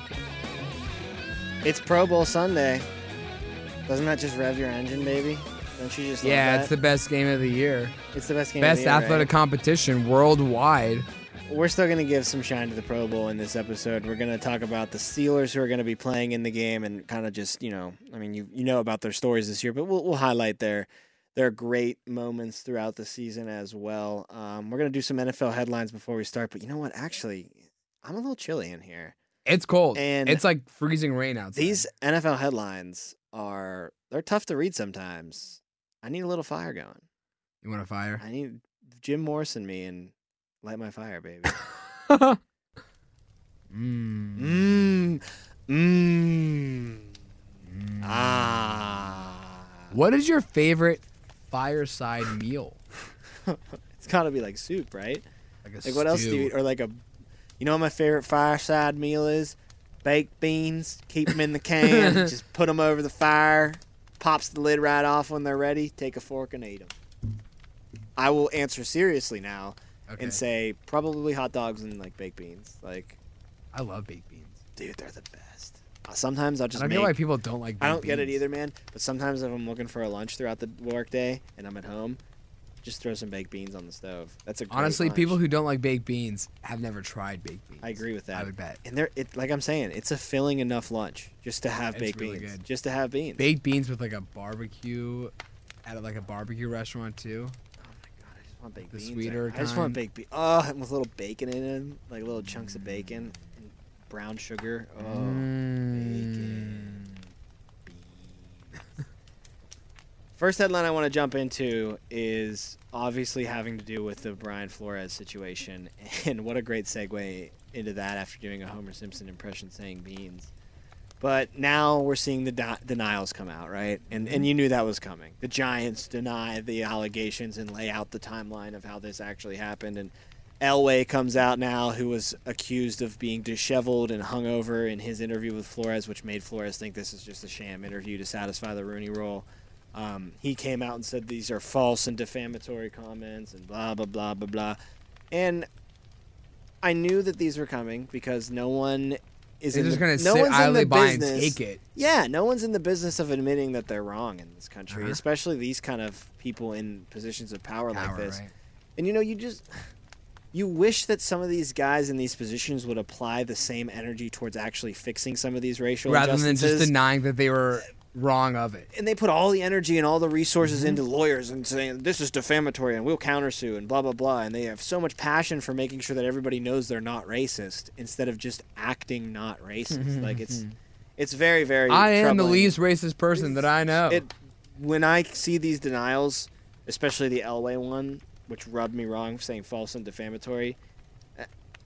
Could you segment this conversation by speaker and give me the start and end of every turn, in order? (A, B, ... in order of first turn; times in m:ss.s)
0:01.6-0:02.9 A
0:03.9-0:06.7 A
0:06.2-0:08.0 B
0:08.1-0:09.3 A
0:08.6-0:11.1 B
0:11.5-0:29.2 A
0:29.4-0:31.8 B
0:30.0-0:30.4 A
0:31.5-0:37.0 A
0:37.6-0:38.2 B
0:38.2-0:41.6 A
0:42.1-0:42.4 B
0:43.7-0:44.7 B
0:44.4-0:47.0 A
0:47.7-0:49.0 B
0:48.0-0:50.0 A
0:49.9-0:52.8 B
0:53.5-0:55.2 A
0:55.6-0:56.5 B
0:55.8-0:57.0 A
0:57.6-1:06.9 A
1:01.8-1:02.3 B
1:08.2-1:13.2 A
1:10.1-1:10.4 B
1:13.7-1:14.6 B
1:14.8-1:17.1 A
1:16.8-1:18.4 B
1:17.8-1:22.2 A
1:22.8-1:25.4 A
1:24.7-1:28.8 B
1:27.8-1:33.5 A
1:31.9-1:32.6 B
1:33.4-1:35.3 B
1:35.8-1:37.6 B
1:37.8-1:47.2 A
1:38.9-1:40.0 B
1:45.0-1:47.1 B
1:47.9-1:48.7 A
1:50.4-2:00.5 A
2:01.2-2:24.8 A
2:04.2-2:04.5 B
2:25.3-2:25.7 A
2:26.8-2:38.4 A
2:29.7-2:31.8 B
2:34.9-2:35.2 B
2:37.9-2:38.5 B
2:39.0-2:39.8 A
2:40.5-2:46.9 A
2:46.1-2:48.9 B
2:48.9-3:00.6 A
2:50.6-2:51.0 B
2:59.9-3:00.8 B
3:01.2-3:02.8 A
3:01.9-3:04.3 B
3:03.4-3:10.8 A